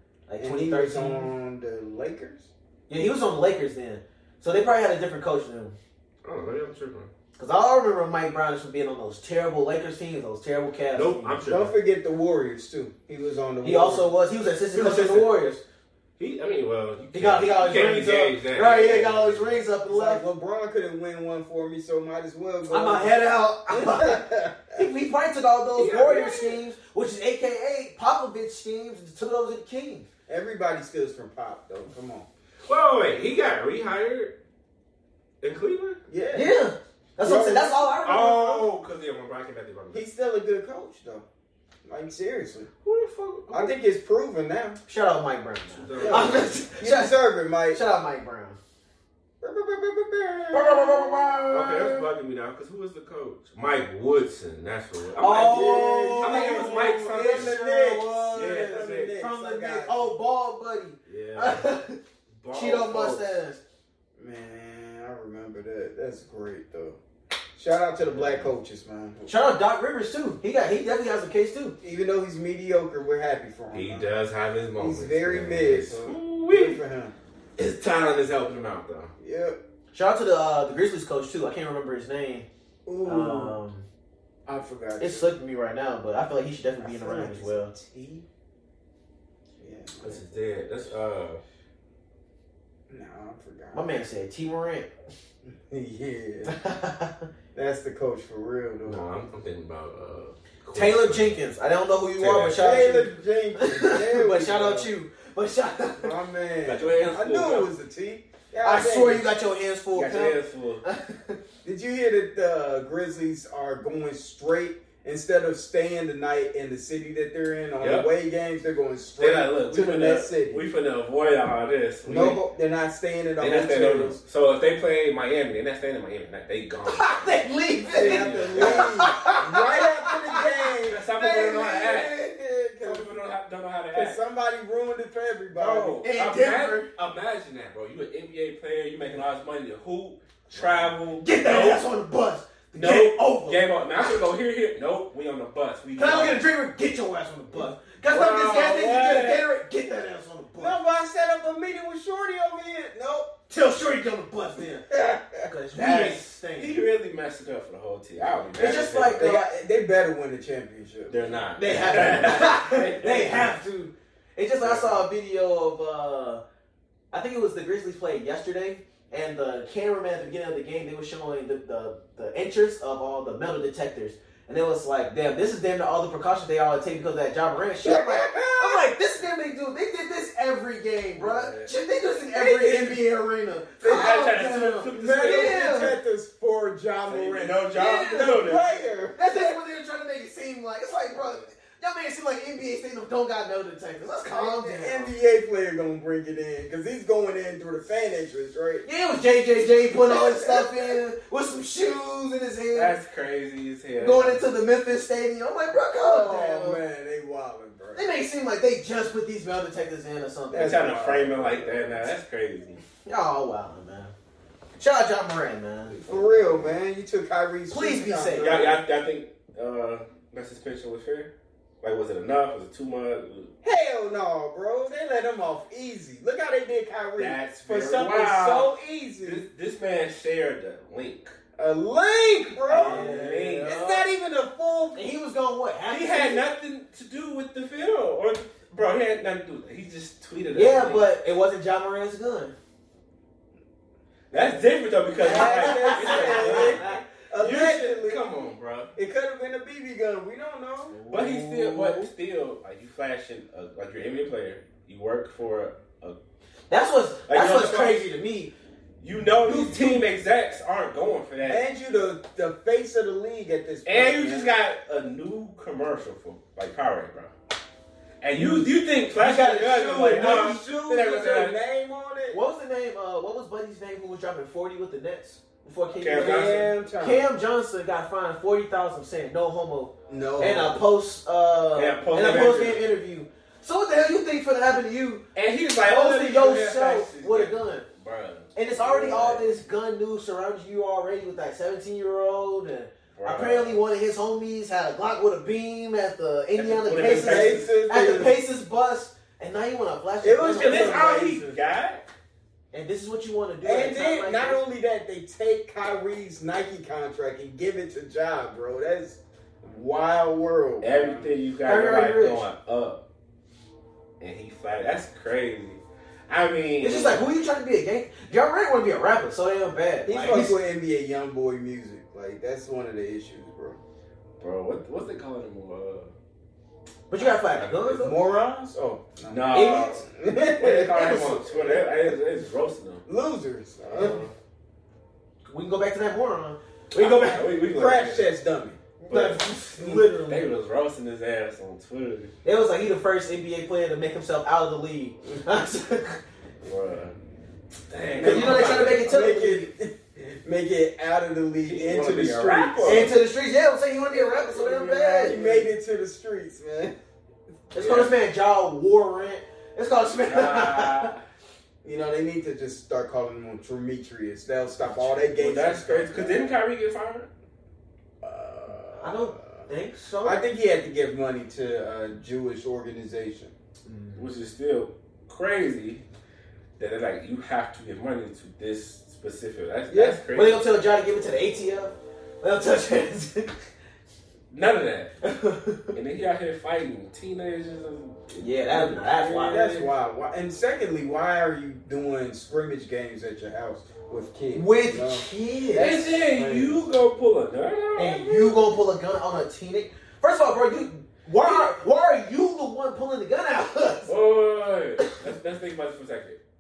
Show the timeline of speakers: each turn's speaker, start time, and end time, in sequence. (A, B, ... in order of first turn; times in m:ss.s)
0:00.3-0:01.3 A
0:00.4-0:02.5 B
0:02.9-0:05.8 A
0:06.2-0:07.1 C
0:07.4-0:11.4 A
0:10.9-0:11.8 C
0:11.5-0:14.1 B
0:13.6-0:15.6 A
0:14.7-0:15.4 C
0:16.2-0:19.7 C
0:17.1-0:20.2 A
0:19.9-0:24.8 B
0:22.7-0:30.1 A
0:25.8-0:26.6 C
0:30.3-0:32.3 B
0:32.7-0:34.4 C
0:35.4-0:36.0 C
0:36.1-0:36.5 B
0:36.3-0:38.7 A
0:37.2-0:37.9 B
0:38.0-0:40.0 C
0:39.9-0:41.3 B
0:41.8-0:42.7 B
0:42.8-0:43.8 C
0:43.5-0:44.8 B
0:44.9-0:47.2 A
0:45.8-0:46.6 C
0:45.9-0:47.8 B
0:47.7-0:48.6 A
0:49.4-0:51.7 B
0:50.5-0:52.0 A
0:51.5-0:57.6 C
0:55.2-1:02.0 A
0:55.2-1:00.2 B
0:58.3-0:59.2 C
1:01.1-1:01.7 C
1:02.4-1:03.3 C
1:02.5-1:03.6 A
1:04.2-1:07.0 B
1:07.6-1:09.3 B
1:08.0-1:08.5 C
1:09.3-1:11.8 A
1:11.8-1:14.1 B
1:13.7-1:16.8 C
1:14.8-1:17.2 B
1:17.6-1:19.1 C
1:19.2-1:19.6 B
1:19.9-1:22.5 A
1:22.9-1:23.6 B
1:23.0-1:23.9 A
1:24.5-1:25.3 B
1:25.0-1:27.7 A
1:26.8-1:28.3 B
1:29.6-1:30.2 B
1:30.0-1:31.4 C
1:32.9-1:33.9 B
1:33.7-1:34.9 A
1:35.4-1:36.6 B
1:36.5-1:37.3 A
1:37.5-1:39.1 B
1:38.9-1:41.4 C
1:40.7-1:46.2 A
1:42.2-1:42.6 C
1:42.6-1:44.9 B
1:46.0-1:49.3 B
1:46.6-1:47.7 C
1:48.6-1:51.4 A
1:49.9-1:50.8 C
1:51.6-2:00.6 B
1:57.8-1:58.1 C
1:59.2-2:02.4 C
2:02.0-2:04.2 B
2:03.4-2:09.3 C
2:06.9-2:10.5 A
2:07.9-2:13.1 B
2:10.9-2:12.2 C
2:12.8-2:14.2 C
2:13.9-2:16.0 B
2:15.5-2:21.8 C
2:16.0-2:16.9 A
2:20.6-2:23.6 A
2:22.8-2:26.4 C
2:26.0-2:30.8 A
2:28.0-2:29.5 C
2:30.6-2:33.3 B
2:33.5-2:34.9 A
2:34.9-2:35.5 B
2:35.4-2:36.8 A
2:35.7-2:39.3 C
2:38.6-2:39.5 A
2:38.7-2:42.6 B
2:41.1-2:43.6 C
2:41.6-2:46.4 A
2:44.6-2:45.0 C
2:47.1-3:06.0 A
2:57.8-2:58.9 B
3:01.2-3:01.7 C
3:02.3-3:03.0 B
3:03.8-3:04.3 B
3:03.8-3:05.8 C
3:04.9-3:09.2 B
3:07.1-3:08.8 C
3:07.7-3:08.5 A
3:09.2-3:15.1 A
3:14.3-3:18.8 B
3:18.8-3:23.0 A
3:20.0-3:21.0 B
3:22.7-3:24.5 C
3:24.0-3:26.8 A
3:26.0-3:28.1 B
3:28.0-3:30.8 A
3:30.5-3:32.1 B
3:30.5-3:32.8 C
3:33.0-3:34.1 A
3:34.8-3:36.0 A
3:35.9-3:38.8 B
3:36.1-3:36.7 C
3:37.7-3:38.7 A
3:38.4-3:41.3 C
3:41.8-3:43.5 C
3:43.6-3:49.4 B
3:47.2-3:51.4 C
3:51.6-3:55.0 B
3:52.7-3:53.8 C
3:52.7-3:54.1 A
3:55.0-3:56.4 A
3:55.9-4:01.1 C
4:00.5-4:02.6 A
4:04.3-4:08.9 C
4:05.2-4:07.0 A
4:05.2-4:08.3 B
4:09.0-4:11.0 B
4:10.9-4:11.9 A
4:11.1-4:16.2 C
4:11.6-4:12.1 B
4:16.7-4:18.5 A
4:17.3-4:18.1 C
4:19.0-4:21.6 C
4:19.5-4:20.0 B
4:19.5-4:20.0 A
4:21.4-4:24.5 B
4:23.8-4:27.3 C
4:28.2-4:31.6 C
4:28.4-4:28.7 B
4:29.1-4:30.7 A
4:30.0-4:32.4 B
4:32.3-4:45.2 A
4:36.0-4:36.7 C
4:36.1-4:37.3 B
4:40.1-4:40.8 B
4:41.7-4:42.9 C
4:45.4-4:49.5 C
4:45.8-4:47.9 A
4:48.6-5:01.2 A
4:53.2-4:53.8 C
4:56.6-4:57.7 C
4:57.0-4:58.4 B
5:00.2-5:01.6 B
5:00.5-5:02.1 C
5:02.7-5:04.6 A
5:03.6-5:11.3 B
5:10.8-5:13.0 C
5:11.6-5:12.5 A
5:14.2-5:17.2 C
5:16.8-5:20.6 A
5:20.1-5:23.8 B
5:24.4-5:26.1 C
5:27.1-5:28.2 A
5:27.2-5:27.9 C
5:27.9-5:31.2 B
5:29.3-5:30.0 C
5:29.5-5:30.0 A
5:30.6-5:33.0 C
5:30.9-5:31.8 A
5:33.1-5:34.2 B
5:33.9-5:34.3 C
5:35.5-5:37.5 A
5:36.9-5:38.3 C
5:37.7-5:38.8 B
5:39.1-5:40.5 A
5:39.1-5:42.3 C
5:39.8-5:40.1 B
5:42.4-5:46.2 A
5:46.6-5:47.2 C
5:47.9-5:49.1 C
5:48.2-5:53.2 B
5:48.2-5:49.7 A
5:51.7-5:53.2 C
5:52.8-5:55.4 A
5:54.1-5:55.7 C
5:55.2-5:57.0 B
5:57.7-6:01.1 A
5:57.8-5:58.2 C
6:00.3-6:01.2 C
6:01.8-6:06.5 B
6:04.8-6:07.3 C
6:08.2-6:09.2 B
6:09.0-6:10.4 A
6:10.2-6:13.5 B
6:13.9-6:14.3 A
6:14.2-6:16.0 C
6:16.8-6:20.6 C
6:19.9-6:20.2 B
6:20.3-6:23.6 A
6:24.5-6:25.1 C
6:25.2-6:26.0 A
6:25.9-6:29.9 C
6:28.4-6:29.7 A
6:29.5-6:36.9 B
6:34.5-6:36.0 A
6:35.7-6:38.8 C
6:38.0-6:44.2 A
6:41.4-6:41.7 C
6:44.1-6:46.4 C